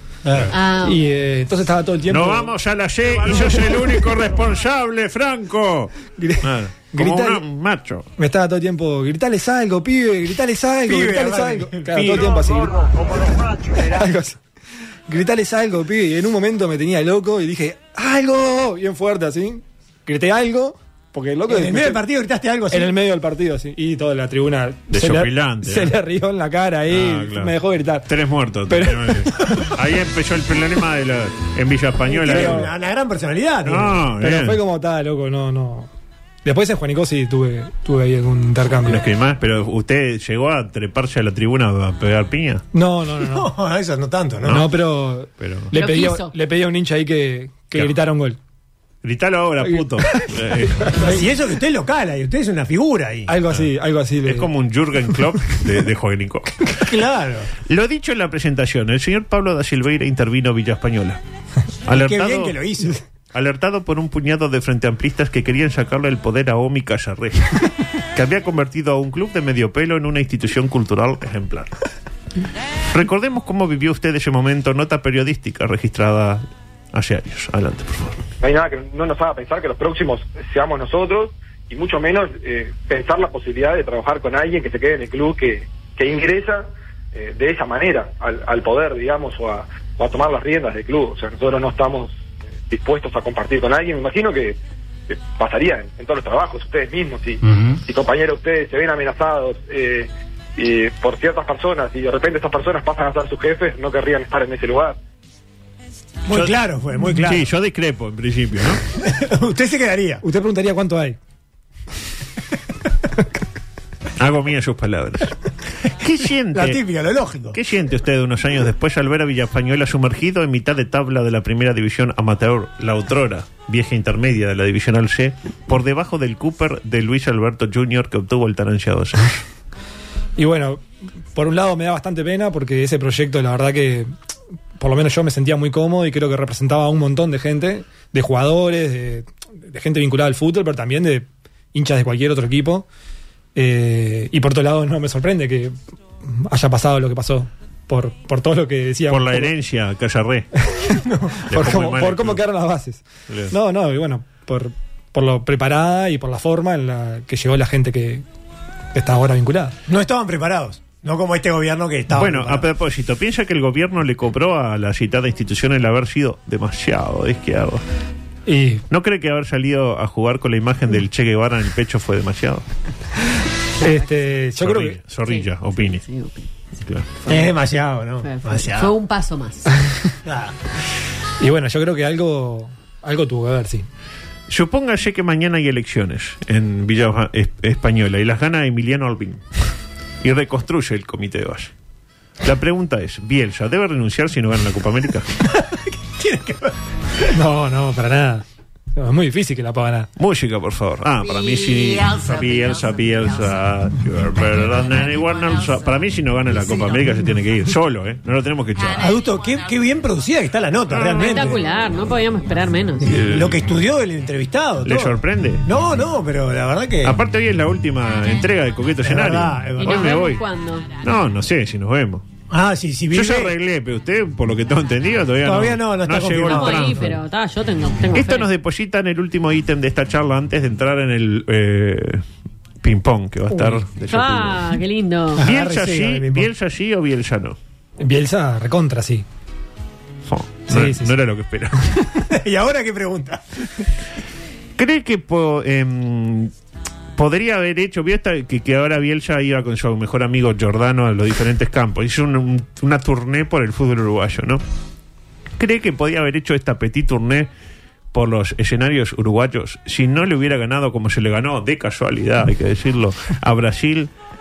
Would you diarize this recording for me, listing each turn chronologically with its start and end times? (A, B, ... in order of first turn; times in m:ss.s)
0:00.2-0:00.5 A
0:00.5-0:01.0 B
0:00.8-0:02.5 C
0:02.1-0:08.1 D
0:06.2-0:07.4 C
0:08.2-0:12.8 C
0:10.9-0:12.4 A
0:13.8-0:14.4 C
0:15.1-0:22.0 C
0:21.5-0:22.9 A
0:22.7-0:28.1 C
0:24.9-0:25.9 D
0:26.9-0:27.6 D
0:28.1-0:32.7 D
0:28.7-0:29.4 C
0:32.1-0:34.0 A
0:32.2-0:32.7 C
0:33.6-0:34.6 D
0:34.2-0:35.9 C
0:36.4-0:39.0 C
0:38.9-0:42.6 D
0:42.7-0:43.5 C
0:43.2-0:44.6 A
0:44.5-0:48.4 C
0:45.4-0:45.7 D
0:45.7-0:46.3 B
0:49.0-0:51.0 D
0:49.6-0:51.2 C
0:51.0-0:53.3 A
0:53.3-0:54.5 C
0:54.2-0:56.7 D
0:56.7-0:57.5 A
0:57.7-1:01.2 D
1:01.9-1:02.6 D
1:01.9-1:03.0 A
1:03.3-1:07.6 D
1:08.1-1:11.8 D
1:12.9-1:16.4 D
1:16.9-1:18.2 D
1:18.4-1:34.6 E
1:35.1-1:45.0 E
1:46.3-1:47.5 A
1:47.2-1:48.8 D
1:48.9-1:50.2 A
1:50.2-1:51.2 C
1:54.2-1:56.8 D
1:56.5-1:57.6 A
1:57.5-2:09.4 D
2:10.4-2:10.8 C
2:11.4-2:14.1 C
2:14.8-2:22.9 C
2:23.6-2:25.7 C
2:26.2-2:29.5 C
2:29.1-2:30.5 D
2:30.7-2:38.2 C
2:31.0-2:31.4 A
2:31.5-2:32.4 D
2:38.9-2:39.8 C
2:39.9-2:42.6 A
2:42.1-2:47.8 D
2:48.5-2:48.8 C
2:48.9-2:52.6 D
2:53.8-2:55.0 C
2:54.6-2:56.0 D
2:55.3-2:56.4 B
2:56.8-2:57.1 D
2:57.3-2:59.0 A
2:58.2-2:59.7 B
3:00.2-3:00.5 A
3:01.4-3:03.9 C
3:04.5-3:09.4 D
3:10.2-3:11.7 D
3:12.4-3:15.3 D
3:15.5-3:16.8 A
3:17.3-3:18.4 C
3:19.0-3:20.1 C
3:20.2-3:29.0 D
3:29.0-3:31.6 A
3:30.9-3:31.6 D
3:31.2-3:33.0 B
3:33.0-3:37.2 A
3:33.0-3:33.6 D
3:34.8-3:35.6 D
3:37.0-3:40.4 D
3:39.0-3:40.2 A
3:39.8-3:40.9 B
3:41.0-3:42.2 D
3:42.5-3:43.5 A
3:43.1-3:47.2 D
3:45.4-3:47.1 A
3:46.4-3:48.5 B
3:48.1-3:52.2 D
3:52.8-3:54.8 D
3:53.5-3:53.8 C
3:54.1-3:55.4 B
3:55.4-3:56.5 A
3:55.4-3:57.6 D
3:58.0-3:59.3 C
4:00.3-4:02.0 D
4:00.7-4:01.2 C
4:02.3-4:03.8 A
4:04.8-4:06.5 D
4:07.2-4:14.6 D
4:15.6-4:17.5 D
4:18.1-4:24.1 D